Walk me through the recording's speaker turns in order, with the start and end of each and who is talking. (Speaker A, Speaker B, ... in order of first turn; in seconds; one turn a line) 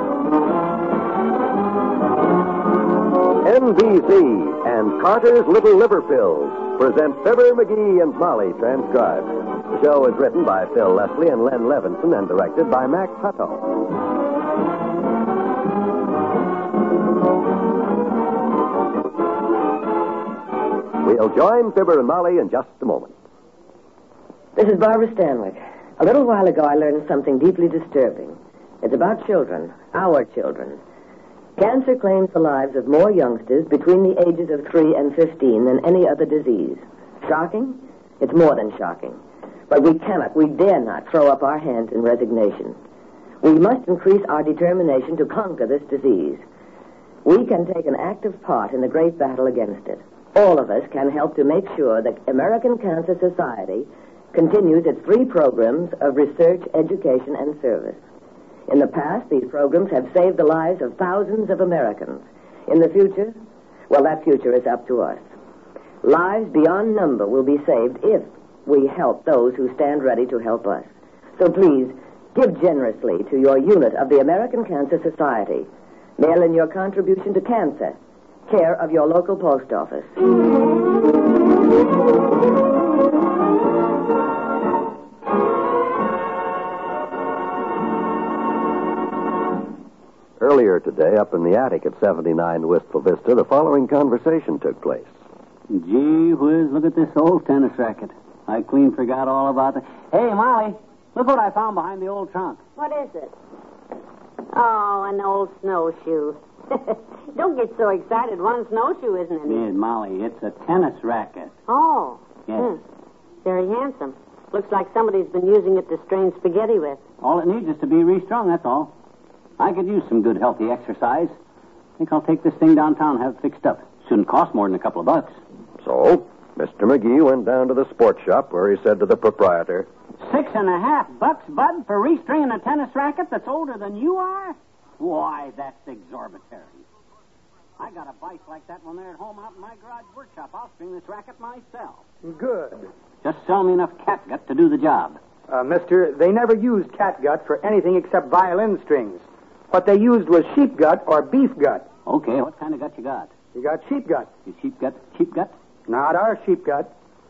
Speaker A: 3.5-13.7
Speaker A: 21.0-23.1
Speaker B: 24.6-30.8
Speaker B: 31.6-39.2
Speaker B: 39.7-42.8
Speaker B: 43.4-46.4
Speaker B: 47.2-58.0
Speaker B: 58.7-63.4
Speaker B: 63.9-65.2
Speaker B: 66.0-75.7
Speaker B: 76.2-78.0
Speaker B: 78.5-80.1
Speaker A: 90.4-95.1
Speaker C: 95.7-102.6
Speaker D: 102.8-103.3
Speaker D: 104.5-109.7
Speaker C: 109.5-111.5
Speaker D: 111.7-112.8
Speaker C: 112.5-112.7
Speaker D: 113.4-117.0
Speaker C: 117.2-118.9
Speaker C: 119.6-121.3
Speaker C: 122.0-125.3
Speaker A: 125.8-129.9
Speaker C: 130.2-136.8
Speaker C: 137.8-142.0
Speaker E: 142.2-142.9
Speaker C: 143.2-145.2
Speaker E: 145.5-151.8
Speaker C: 152.1-153.3
Speaker E: 153.6-154.3
Speaker C: 154.5-155.5
Speaker E: 155.9-156.9